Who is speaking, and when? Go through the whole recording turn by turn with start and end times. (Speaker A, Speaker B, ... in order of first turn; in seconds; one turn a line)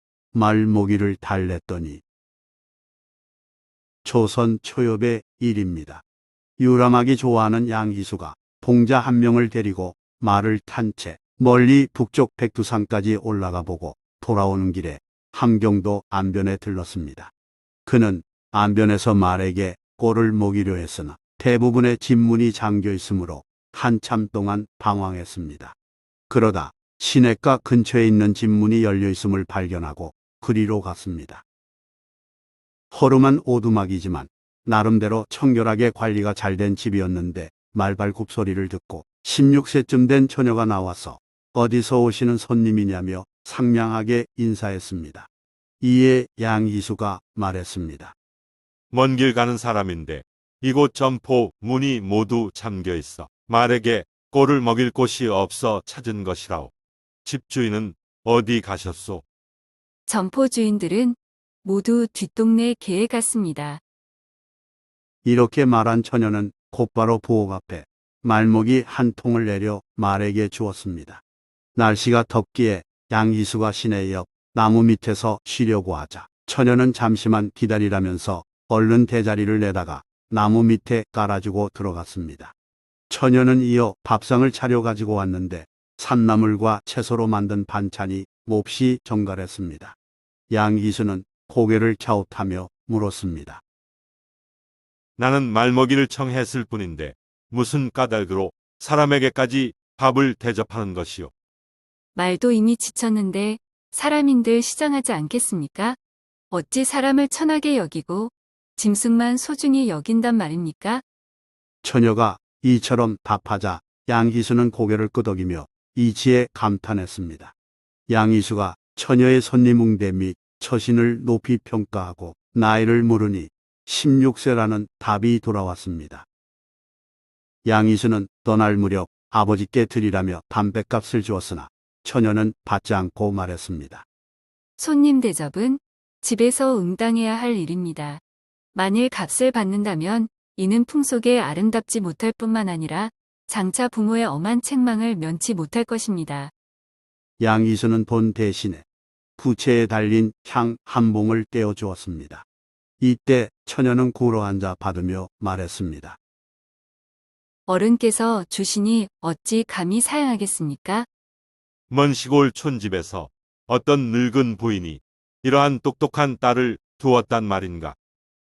Speaker A: 0.3-2.0
Speaker A: 4.0-6.0
Speaker A: 6.6-17.3
Speaker A: 17.9-25.8
Speaker A: 26.3-31.4
Speaker A: 32.9-45.3
Speaker A: 45.8-48.1
Speaker B: 48.9-56.7
Speaker B: 57.2-59.2
Speaker C: 60.1-63.8
Speaker A: 65.2-71.2
Speaker A: 71.8-82.5
Speaker A: 83.1-90.0
Speaker A: 90.5-93.6
Speaker B: 95.2-101.3
Speaker C: 102.2-106.0
Speaker C: 106.5-111.0
Speaker A: 111.8-117.5
Speaker A: 118.1-126.3
Speaker A: 127.7-134.1
Speaker C: 134.8-138.2
Speaker C: 138.7-146.5
Speaker A: 147.4-148.8
Speaker A: 149.4-152.5
Speaker A: 153.0-156.2
Speaker C: 157.7-161.1
Speaker B: 161.9-168.0